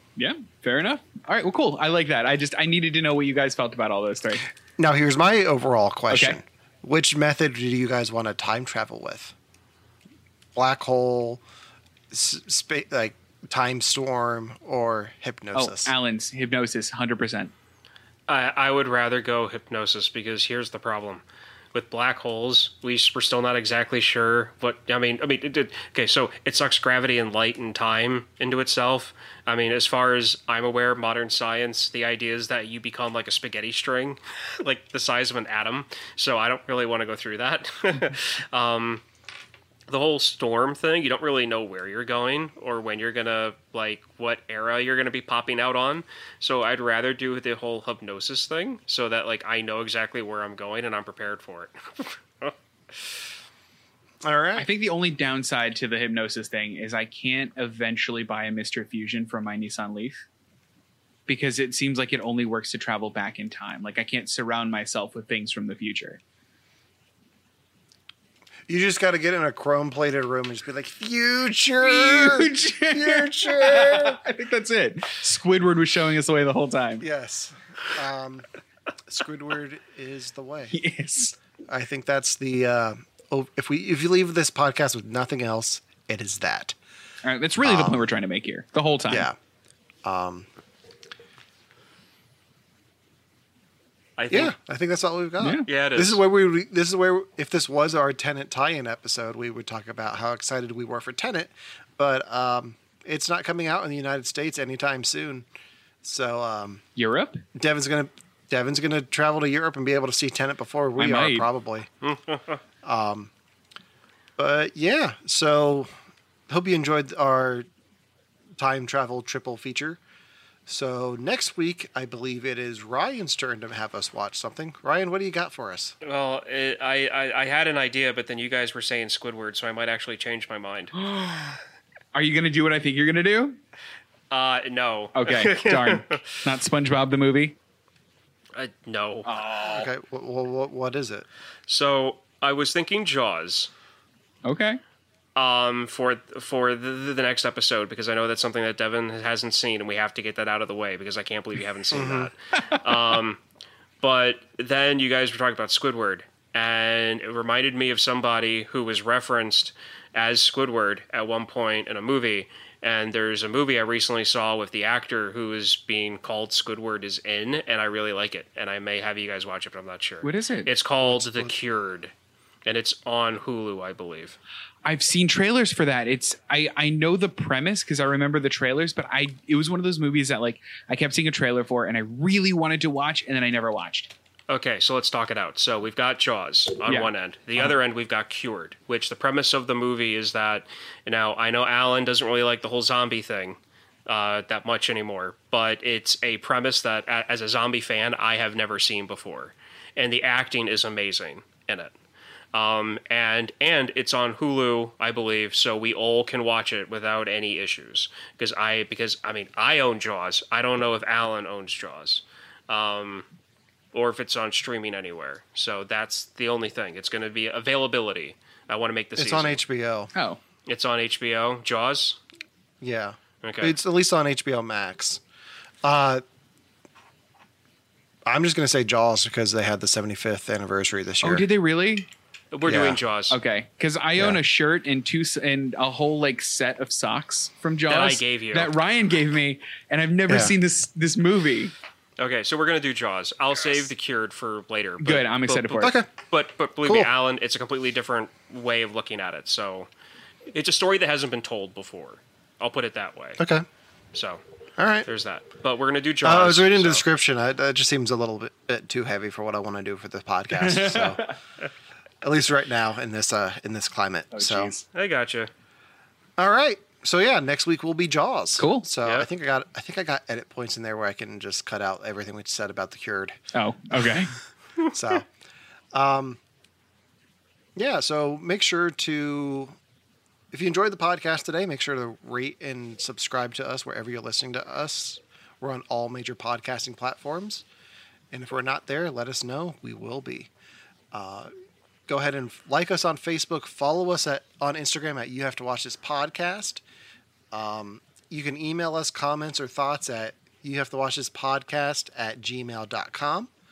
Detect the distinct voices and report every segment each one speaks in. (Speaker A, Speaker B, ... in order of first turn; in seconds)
Speaker A: 0.2-4.5, 6.1-6.4, 15.5-17.5, 54.5-60.2, 61.3-66.2, 71.8-77.0, 80.7-81.3, 87.2-89.3, 95.4-95.7, 107.0-107.4, 111.0-111.5, 130.9-131.6, 132.1-133.6, 135.2-137.6, 139.2-139.9, 144.4-144.8, 170.2-170.7, 174.8-184.1, 186.8-187.7, 220.1-220.4, 231.2-232.1, 233.3-241.7, 245.0-245.9, 260.6-261.3, 264.3-264.8, 268.6-268.9, 273.5-274.3
Speaker B: 4.8-9.3, 10.5-11.4, 12.1-15.9, 54.2-54.6, 68.7-74.2, 77.0-78.4, 79.1-80.8, 81.7-86.8, 87.6-88.0, 89.1-89.3, 90.0-90.5, 94.3-105.5, 106.0-106.8, 107.5-111.9, 112.8-113.3, 114.4-115.9, 116.5-117.7, 118.6-120.0, 120.7-125.9, 139.6-141.2, 151.9-152.3, 171.0-171.6, 219.2-220.1, 222.8-225.2, 225.8-226.2, 228.2-231.4, 232.7-233.0, 240.3-240.5, 245.8-246.1, 246.8-247.1, 253.4-253.6, 254.8-255.1, 256.2-261.2, 262.2-264.7, 266.4-273.3, 274.9-275.3, 275.9-276.4, 277.8-279.7, 280.5-287.6, 288.3-290.5, 291.1-291.5, 292.1-296.8, 297.5-303.5
Speaker C: 18.3-39.0, 39.9-53.2, 94.2-94.5, 95.7-96.2, 112.0-112.6, 126.0-130.9, 134.3-136.2, 138.5-139.3, 141.7-143.7, 145.3-153.4, 154.0-172.1, 172.6-174.4, 184.5-201.9, 202.5-213.3, 213.9-219.6, 220.7-222.2, 223.4-223.8, 232.5-233.4, 237.9-238.7, 242.2-249.9, 250.5-253.4, 254.1-254.4, 255.0-257.0, 264.9-265.5